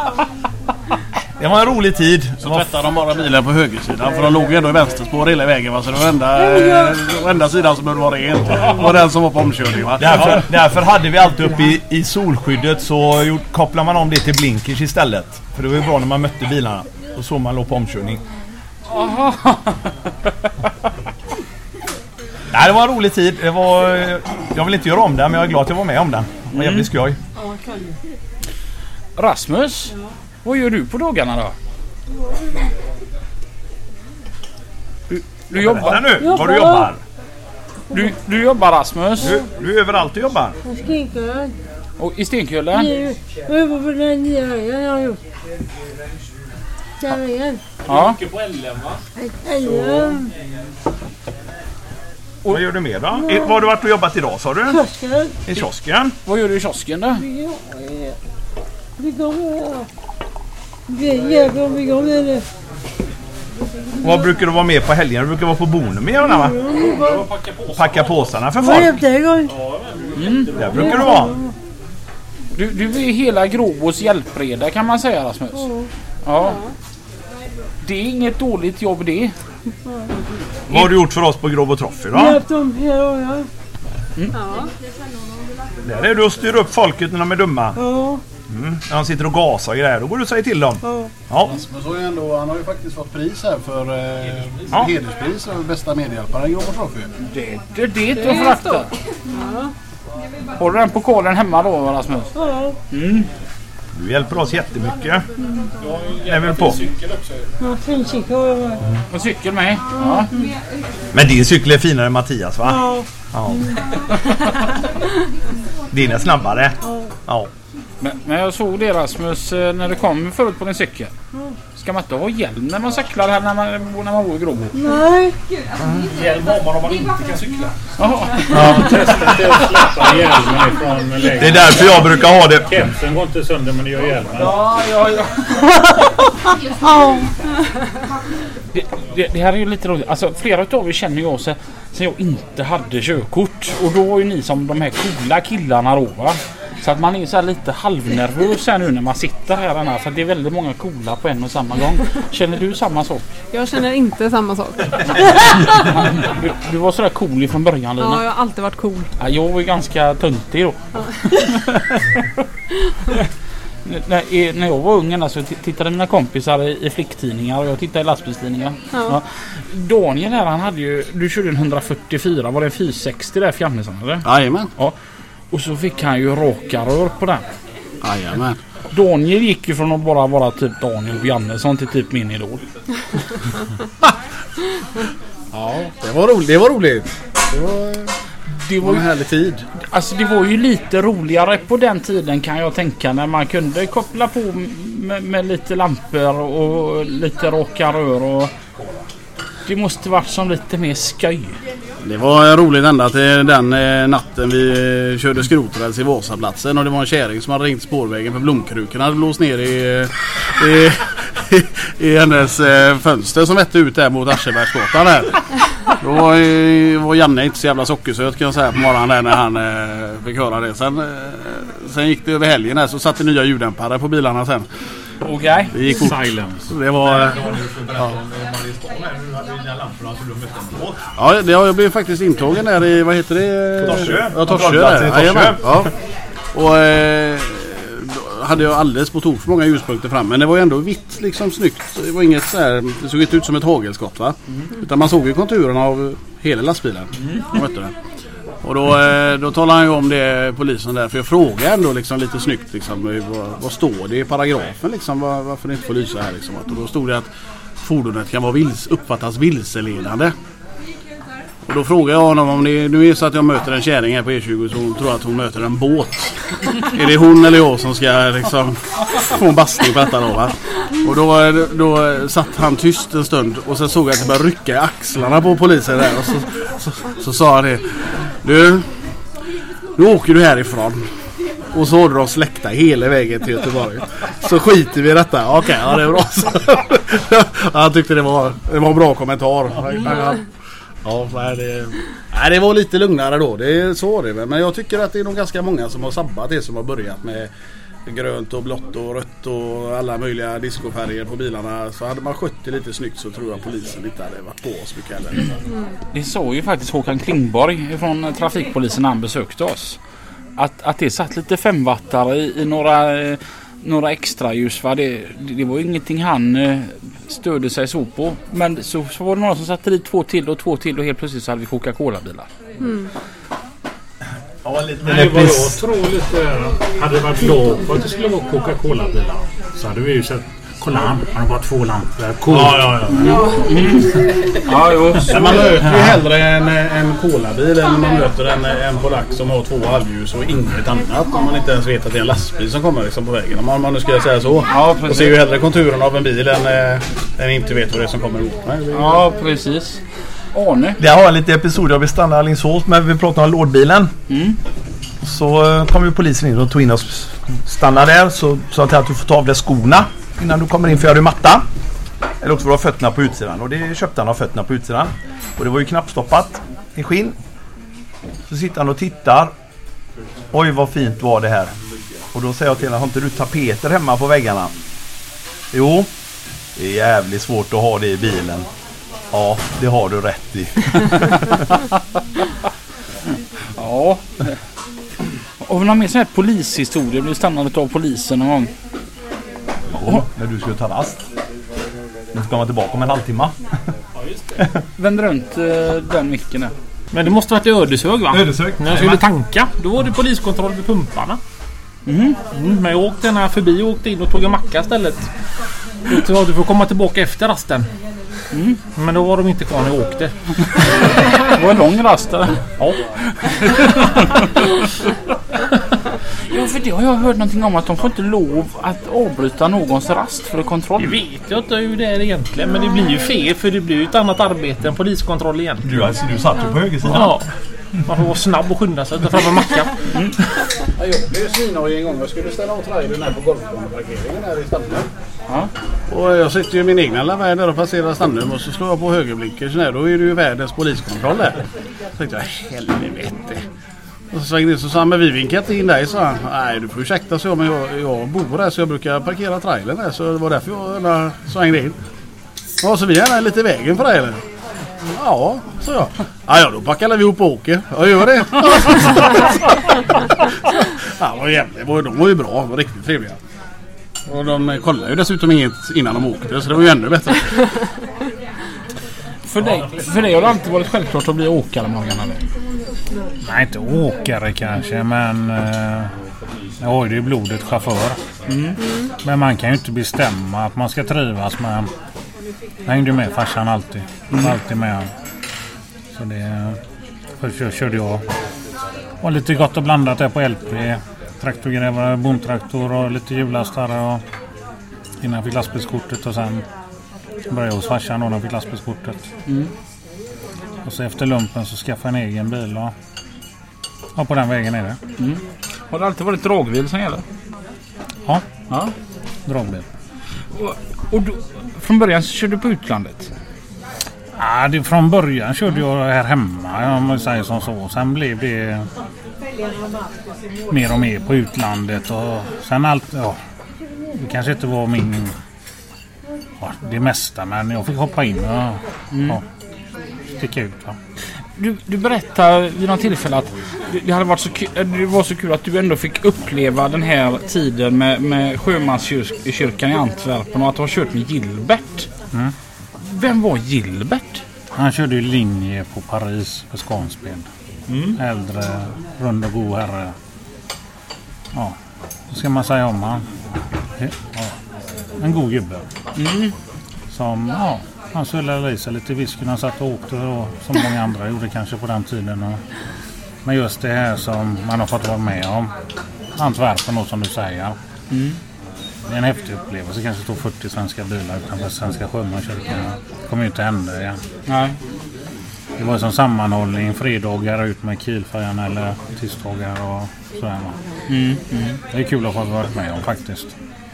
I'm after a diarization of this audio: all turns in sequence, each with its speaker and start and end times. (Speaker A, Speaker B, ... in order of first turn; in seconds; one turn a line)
Speaker A: 1.4-2.7
Speaker B: 2.4-10.4
Speaker C: 6.4-7.0
Speaker A: 10.0-18.2
Speaker D: 18.9-19.8
Speaker A: 22.5-27.2
Speaker D: 26.5-26.9
Speaker C: 27.4-27.9
Speaker D: 29.2-29.9
Speaker D: 30.4-31.6
Speaker D: 35.1-36.3
Speaker A: 35.5-37.0
Speaker C: 36.2-36.9
Speaker D: 37.9-39.4
Speaker A: 39.2-40.6
Speaker C: 40.7-41.5
Speaker D: 42.0-42.9
Speaker C: 42.7-45.2
Speaker C: 47.0-47.6
Speaker D: 47.9-48.2
Speaker E: 47.9-49.0
Speaker C: 49.2-50.2
Speaker E: 49.6-50.2
Speaker A: 52.5-54.8
Speaker C: 53.2-53.5
Speaker C: 54.7-55.3
Speaker A: 55.5-56.1
Speaker D: 56.3-57.2
Speaker C: 57.2-58.1
Speaker C: 59.0-59.9
Speaker C: 60.9-62.4
Speaker A: 64.0-66.6
Speaker C: 66.3-67.2
Speaker E: 66.8-68.4
Speaker A: 67.7-69.0
Speaker C: 68.6-69.5
Speaker E: 69.5-70.8
Speaker D: 70.2-70.5
Speaker A: 70.5-71.3
Speaker C: 70.8-71.5
Speaker D: 72.6-75.7
Speaker C: 75.6-75.9
Speaker D: 76.2-76.6
Speaker D: 77.8-79.3
Speaker A: 80.7-82.4
Speaker C: 82.1-83.5
Speaker F: 84.3-84.7
Speaker A: 85.8-87.8
Speaker C: 87.8-88.2
Speaker A: 88.5-91.6
Speaker B: 91.4-97.1
Speaker D: 97.2-98.9
Speaker F: 98.2-99.7
Speaker D: 100.6-102.3
Speaker C: 102.4-102.8
Speaker D: 102.9-103.3
Speaker A: 104.0-105.2
Speaker E: 105.8-107.5
Speaker A: 106.3-106.8
Speaker C: 107.6-108.8
Speaker D: 109.1-110.3
Speaker A: 111.1-113.7
Speaker C: 112.7-113.0
Speaker A: 115.9-117.5
Speaker D: 118.0-121.1
Speaker D: 121.8-124.7
Speaker C: 124.8-125.3
Speaker E: 126.1-127.7
Speaker D: 128.0-128.8
Speaker A: 128.5-129.0
Speaker G: 128.5-134.6
Speaker A: 131.4-132.8
Speaker C: 137.0-137.3
Speaker D: 138.7-153.3
Speaker F: 153.5-155.1
Speaker D: 155.4-158.2
Speaker F: 158.0-159.1
Speaker D: 159.2-160.8
Speaker D: 161.3-161.9
Speaker D: 163.8-174.2
Speaker B: 174.2-174.7
Speaker D: 175.5-177.4
Speaker B: 178.0-178.6
Speaker D: 178.9-182.6
Speaker B: 185.5-188.1
Speaker D: 188.7-189.1
Speaker B: 188.8-189.6
Speaker D: 189.8-198.5
Speaker D: 199.7-201.6
Speaker B: 202.0-224.7
Speaker D: 225.2-225.7
Speaker B: 225.7-227.4
Speaker G: 225.9-226.7
Speaker A: 227.0-231.0
Speaker B: 231.2-235.9
Speaker A: 233.8-235.9
Speaker B: 236.5-247.9
Speaker B: 248.6-257.3
Speaker B: 257.8-260.3
Speaker B: 261.7-277.9
Speaker B: 278.4-278.9
Speaker B: 280.0-281.0
Speaker B: 281.7-290.4
Speaker B: 291.0-297.5
Speaker B: 298.1-305.6
Speaker D: 306.1-310.0
Speaker D: 310.6-322.5
Speaker F: 322.8-323.1
Speaker A: 324.6-325.8
Speaker G: 325.0-333.2
Speaker A: 332.5-333.2
Speaker D: 333.1-335.7
Speaker B: 335.3-349.2
Speaker D: 344.7-345.4
Speaker D: 348.9-350.0
Speaker D: 350.5-351.0
Speaker A: 351.0-354.1
Speaker D: 354.3-354.6
Speaker A: 355.2-361.6
Speaker A: 362.4-367.4
Speaker A: 368.5-369.5
Speaker A: 370.5-371.7
Speaker A: 372.3-374.7
Speaker A: 375.7-376.1
Speaker A: 376.8-378.7
Speaker A: 379.3-381.6
Speaker D: 383.8-384.5
Speaker D: 385.6-388.7
Speaker A: 389.9-391.2
Speaker A: 392.3-393.6
Speaker E: 394.2-394.5
Speaker D: 395.0-396.7
Speaker E: 397.1-401.4
Speaker A: 398.3-399.2
Speaker D: 402.1-402.4
Speaker E: 402.5-405.3
Speaker E: 406.1-407.9
Speaker D: 408.5-408.8
Speaker E: 408.9-410.3
Speaker D: 411.5-412.6
Speaker D: 414.0-414.5
Speaker D: 416.5-421.2
Speaker E: 421.0-425.9
Speaker A: 425.8-427.4
Speaker E: 427.1-427.5
Speaker E: 428.1-429.9
Speaker B: 431.0-435.1
Speaker B: 436.1-441.6
Speaker B: 442.2-443.6
Speaker B: 444.3-452.0
Speaker B: 452.8-454.4
Speaker B: 455.1-459.7
Speaker B: 461.2-463.4
Speaker B: 464.3-467.6
Speaker D: 469.5-472.4
Speaker G: 469.7-470.1
Speaker G: 473.4-476.1
Speaker G: 476.8-478.2
Speaker D: 478.5-478.8
Speaker F: 478.8-479.1
Speaker G: 479.2-481.9
Speaker G: 482.9-485.1
Speaker G: 486.1-486.8
Speaker G: 487.4-488.2
Speaker G: 489.2-494.2
Speaker G: 495.2-496.6
Speaker G: 497.5-499.2
Speaker G: 500.9-502.9
Speaker G: 504.2-505.0
Speaker D: 505.2-507.2
Speaker G: 509.5-509.9
Speaker D: 510.6-513.3
Speaker G: 514.4-518.9
Speaker G: 520.7-523.4
Speaker G: 524.1-525.3
Speaker G: 526.6-529.4
Speaker D: 529.1-529.4
Speaker G: 530.4-531.0
Speaker D: 531.6-542.1
Speaker D: 543.0-544.4
Speaker G: 544.7-547.5
Speaker D: 547.9-548.2
Speaker G: 548.1-550.2
Speaker G: 552.3-553.3
Speaker G: 554.0-554.6
Speaker G: 555.2-555.9
Speaker D: 556.2-556.5
Speaker G: 557.1-562.6
Speaker G: 563.4-565.7
Speaker G: 566.4-567.8
Speaker D: 568.1-568.4
Speaker G: 569.1-574.2
Speaker D: 574.5-574.8
Speaker G: 575.8-580.8
Speaker D: 581.1-581.8
Speaker G: 581.9-583.5